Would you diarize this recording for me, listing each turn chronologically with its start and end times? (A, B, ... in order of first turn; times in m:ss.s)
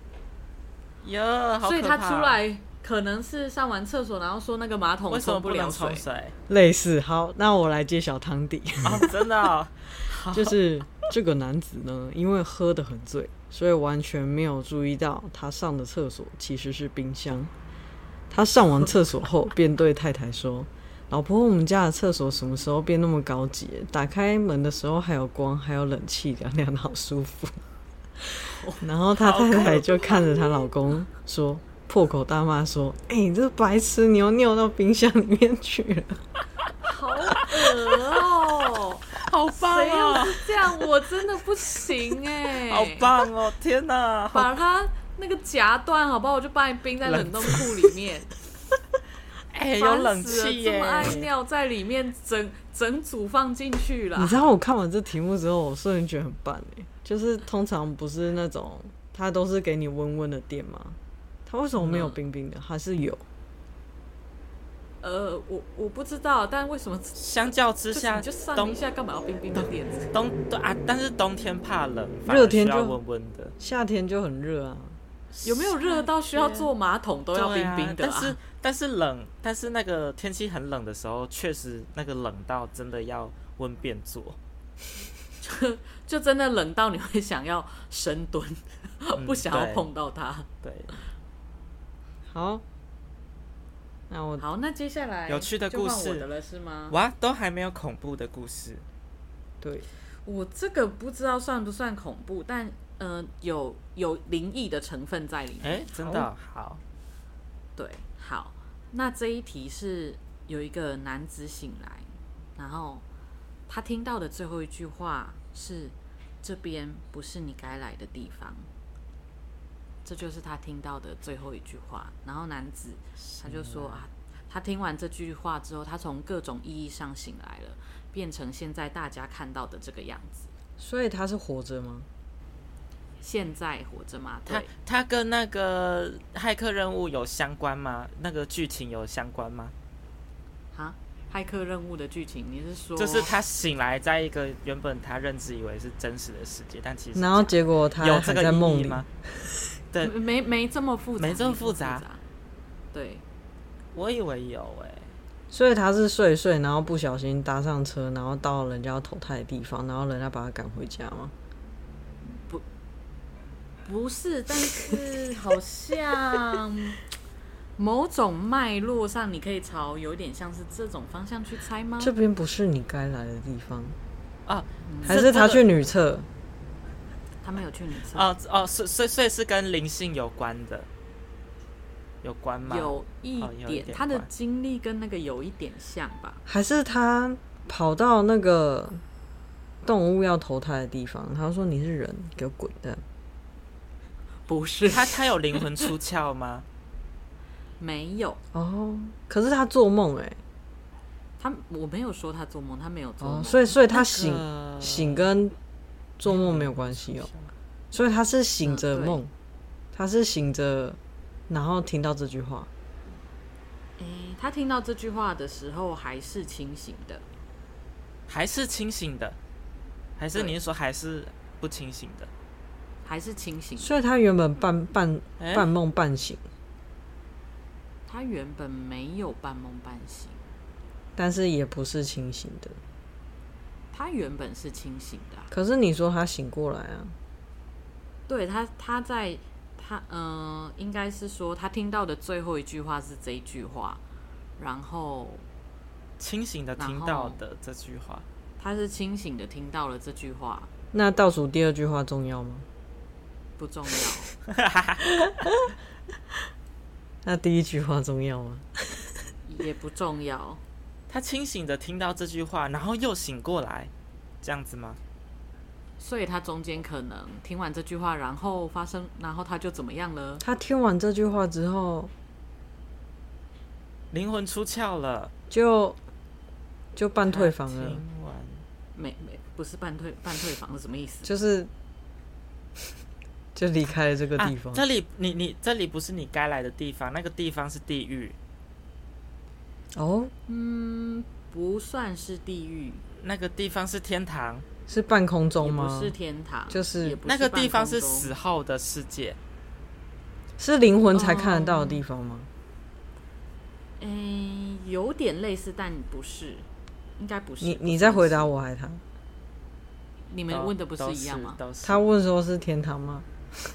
0:01.0-0:02.4 A
0:01.6-0:06.0 B
0:05.1-0:06.3 A
0:06.5-0:09.1 C
0:08.8-0:10.6 A
0:10.3-0:17.5 C
0:18.3-0:27.6 C
0:28.2-0:36.2 C
0:29.2-0:30.3 A
0:36.8-0:43.1 B
0:37.4-0:38.0 A
0:39.2-0:40.9 A
0:42.6-0:44.5 A
0:44.3-0:48.3 B
0:47.0-0:47.9 A
0:49.5-0:51.3 A
0:49.8-0:54.5 B
0:54.2-1:03.2 C
1:01.8-1:02.1 A
1:05.0-1:07.2 B
1:07.1-1:08.8 A
1:07.9-1:10.1 B
1:09.6-1:13.5 A
1:12.2-1:13.0 C
1:13.6-1:15.0 C
1:15.3-1:16.7 A
1:15.4-1:18.4 B
1:17.3-1:24.4 A
1:25.4-1:30.5 B
1:29.2-1:29.9 A
1:30.6-1:30.9 A
1:32.3-1:32.6 C
1:34.1-1:34.4 C
1:34.4-1:37.0 B
1:35.3-1:36.3 A
1:36.9-1:38.8 A
1:39.6-1:39.9 C
1:40.2-1:46.3 B
1:45.6-1:46.8 A
1:47.8-1:53.0 B
1:53.7-1:58.7 B
2:00.0-2:10.5 B
2:03.3-2:04.0 A
2:10.8-2:12.1 C
2:13.2-2:14.7 B
2:14.5-2:19.7 A
2:20.7-2:23.4 B
2:23.0-2:29.0 A
2:27.1-2:29.5 C
2:30.0-2:32.2 B
2:31.2-2:32.0 A
2:32.9-2:33.2 B
2:33.9-2:35.1 A
2:35.5-2:41.3 C
2:42.2-2:42.6 B
2:43.8-2:47.0 B
2:47.8-2:52.1 B
2:52.0-2:54.0 C
2:54.4-2:55.7 A
2:54.8-2:55.2 B
2:55.1-2:56.3 C
2:57.4-2:58.3 B
2:58.1-3:00.9 A
3:02.2-3:04.3 A
3:02.6-3:06.4 B
3:06.5-3:09.0 C
3:09.8-3:13.0 C
3:14.5-3:15.8 B
3:14.9-3:16.6 A
3:17.8-3:18.4 B
3:18.5-3:20.4 C
3:21.4-3:23.7 B
3:23.2-3:25.6 C
3:23.9-3:25.3 A
3:26.2-3:27.3 C
3:26.2-3:27.5 A
3:27.9-3:29.3 C
3:28.6-3:29.2 B
3:29.9-3:32.7 C
3:34.0-3:37.2 B
3:38.3-3:39.4 A
3:40.2-3:42.3 A
3:43.0-3:43.9 B
3:43.8-3:46.4 C
3:45.4-3:45.7 A
3:48.1-3:50.4 B
3:51.2-3:52.8 C
3:53.9-3:55.5 B
3:55.5-3:57.2 C
3:58.3-4:04.0 B
4:04.6-4:05.5 B
4:06.2-4:08.2 A
4:06.8-4:07.4 B
4:08.6-4:10.7 B
4:10.9-4:12.6 C
4:13.6-4:14.3 B
4:14.5-4:15.0 A
4:17.2-4:19.2 C
4:19.4-4:20.6 B
4:21.1-4:23.9 A
4:24.4-4:25.0 A
4:26.0-4:30.4 B
4:30.4-4:32.1 C
4:34.1-4:35.3 A
4:35.5-4:36.0 C
4:36.9-4:38.0 C
4:37.3-4:38.6 A
4:38.9-4:41.3 B
4:41.2-4:41.7 C
4:43.5-4:44.8 C
4:44.4-4:48.4 A
4:49.9-4:50.3 C
4:50.5-4:53.0 B
4:53.2-4:54.6 A
4:54.9-4:56.1 C
4:55.6-4:58.3 B
4:56.7-4:57.2 C
4:57.2-4:59.4 A
5:00.6-5:02.5 C
5:01.1-5:02.0 B
5:04.0-5:08.5 B
5:07.6-5:09.0 C
5:10.3-5:11.6 B
5:10.5-5:12.0 A
5:11.8-5:13.3 C